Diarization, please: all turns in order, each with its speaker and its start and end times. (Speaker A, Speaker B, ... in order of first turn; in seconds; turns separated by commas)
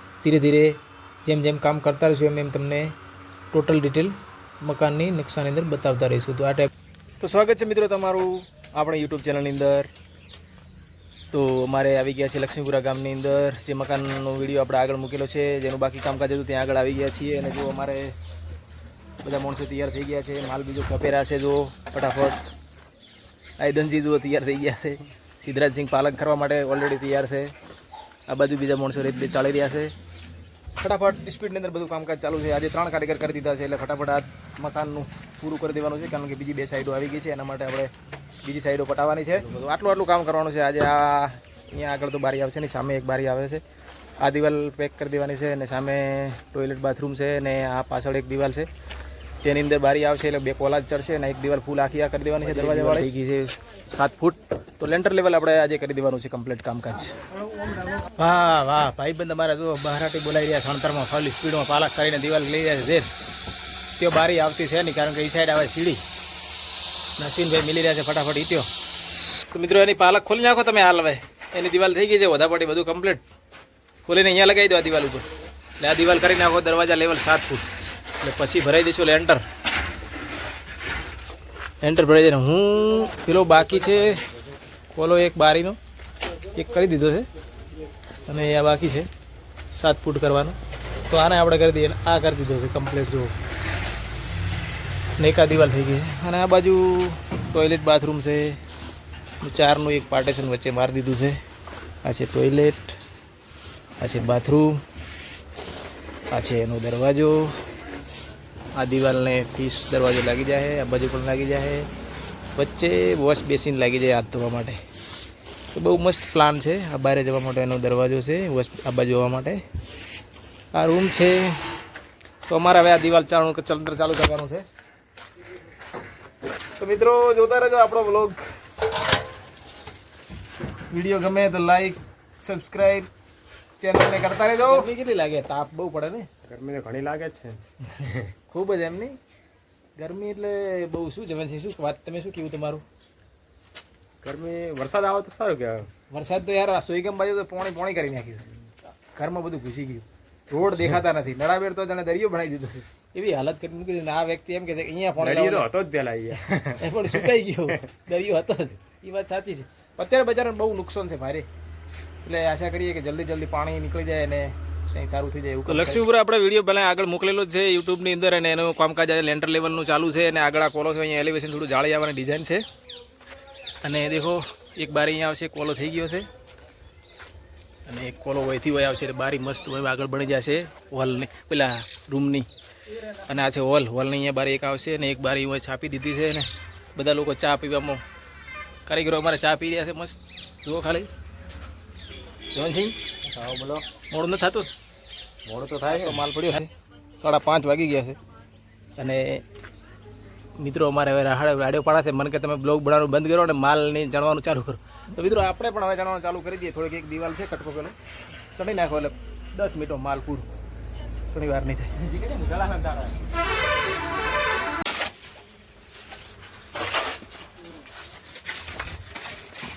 Speaker A: 0.2-2.9, Speaker A: 3.5-9.9, Speaker A: 11.3-18.1, Speaker A: 19.2-22.4, Speaker A: 23.6-27.5, Speaker A: 28.3-29.9, Speaker A: 30.8-37.9, Speaker A: 38.4-43.6, Speaker A: 44.2-48.7, Speaker A: 49.4-57.2, Speaker B: 52.4-53.0, Speaker A: 58.1-63.1, Speaker A: 64.0-66.0, Speaker A: 67.2-68.7, Speaker A: 69.5-73.3, Speaker A: 74.0-75.3, Speaker A: 75.8-79.4, Speaker A: 81.8-84.2, Speaker A: 84.9-85.8, Speaker A: 86.5-87.3, Speaker A: 88.2-89.1, Speaker A: 89.7-93.3, Speaker A: 95.2-98.6, Speaker A: 99.4-101.4, Speaker A: 102.0-103.0, Speaker A: 104.0-104.8, Speaker A: 106.3-107.6, Speaker A: 108.7-111.9, Speaker A: 112.5-114.8, Speaker A: 115.7-119.6, Speaker A: 120.7-121.7, Speaker A: 122.5-124.6, Speaker A: 126.8-128.4, Speaker A: 130.9-133.1, Speaker A: 133.8-136.3, Speaker B: 136.4-138.3, Speaker A: 138.0-139.2, Speaker A: 139.9-142.8, Speaker B: 144.2-145.9, Speaker A: 146.1-148.5, Speaker A: 149.1-155.7, Speaker B: 155.2-157.4, Speaker A: 156.5-161.4, Speaker A: 162.2-172.6, Speaker A: 173.8-176.3, Speaker A: 177.8-182.5, Speaker A: 183.1-188.0, Speaker A: 188.8-191.1, Speaker A: 192.5-193.0, Speaker B: 193.2-193.8, Speaker A: 194.1-194.7, Speaker B: 195.4-196.2, Speaker A: 195.8-198.2, Speaker A: 199.0-199.4, Speaker A: 200.6-207.9, Speaker A: 208.5-210.5, Speaker A: 211.3-212.1, Speaker B: 212.0-213.1